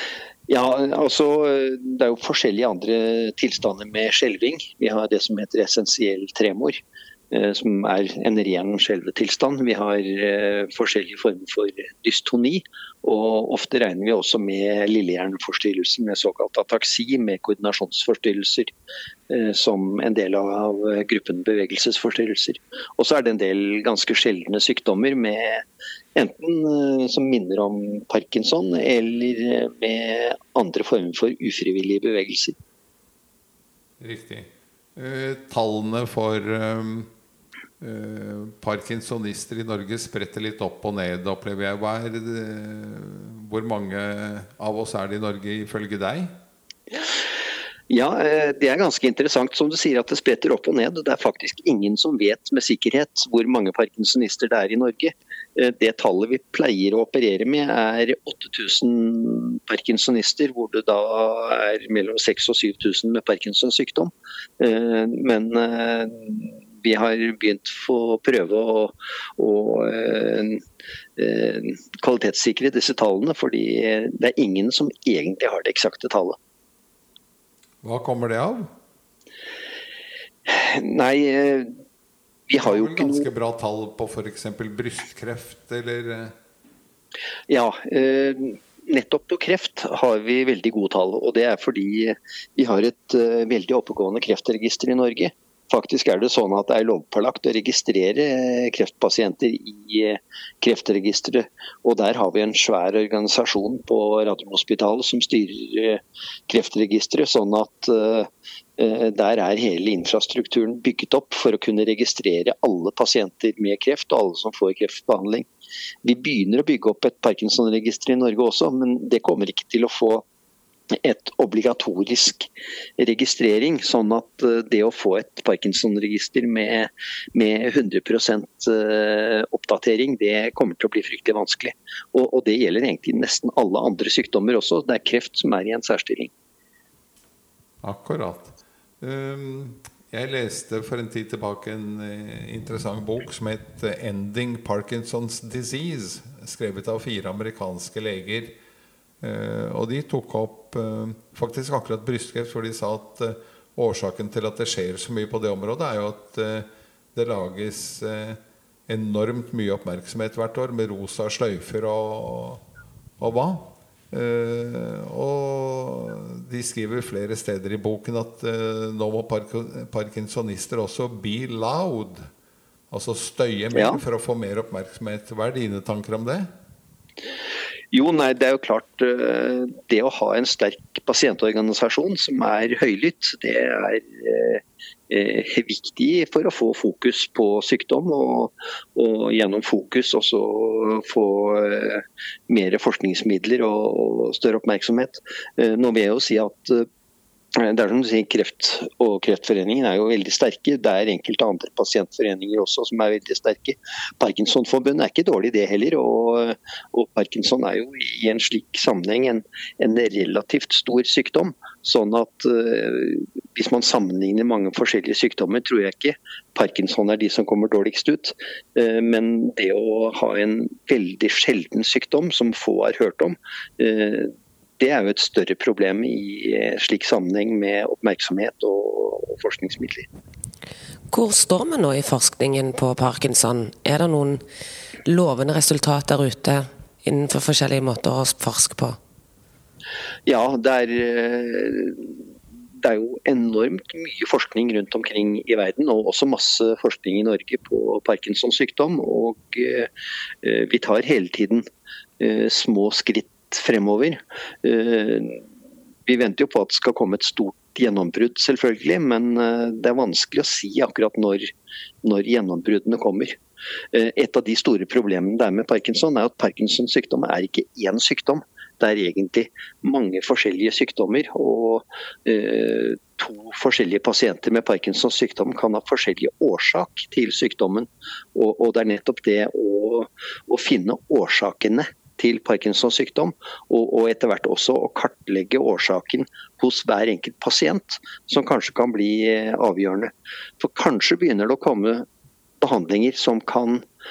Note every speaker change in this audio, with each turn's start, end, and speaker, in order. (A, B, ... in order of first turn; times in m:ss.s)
0:00.5-0:18.7 A
0:19.3-0:32.6 A
0:34.0-0:37.1 B
0:37.8-0:46.3 B
0:47.9-1:10.6 A
1:11.2-1:16.4 A
1:17.8-1:18.7 B
1:20.4-1:21.7 A
1:22.5-1:23.3 A
1:22.6-1:26.3 B
1:27.5-1:55.5 A
1:56.0-2:00.2 A
2:00.9-2:16.3 A
2:17.8-2:28.5 B
2:29.2-2:42.6 B
2:43.2-2:52.3 B
2:52.9-2:56.5 B
2:53.7-2:54.0 A
2:57.9-3:16.9 A
3:17.5-3:50.1 A
3:51.1-3:54.4 C
3:55.0-3:59.0 C
4:00.2-4:09.9 A
4:10.4-4:11.6 A
4:12.2-4:15.4 A
4:16.0-4:21.5 A
4:22.0-4:23.4 A
4:23.9-4:52.0 A
4:52.6-4:53.8 A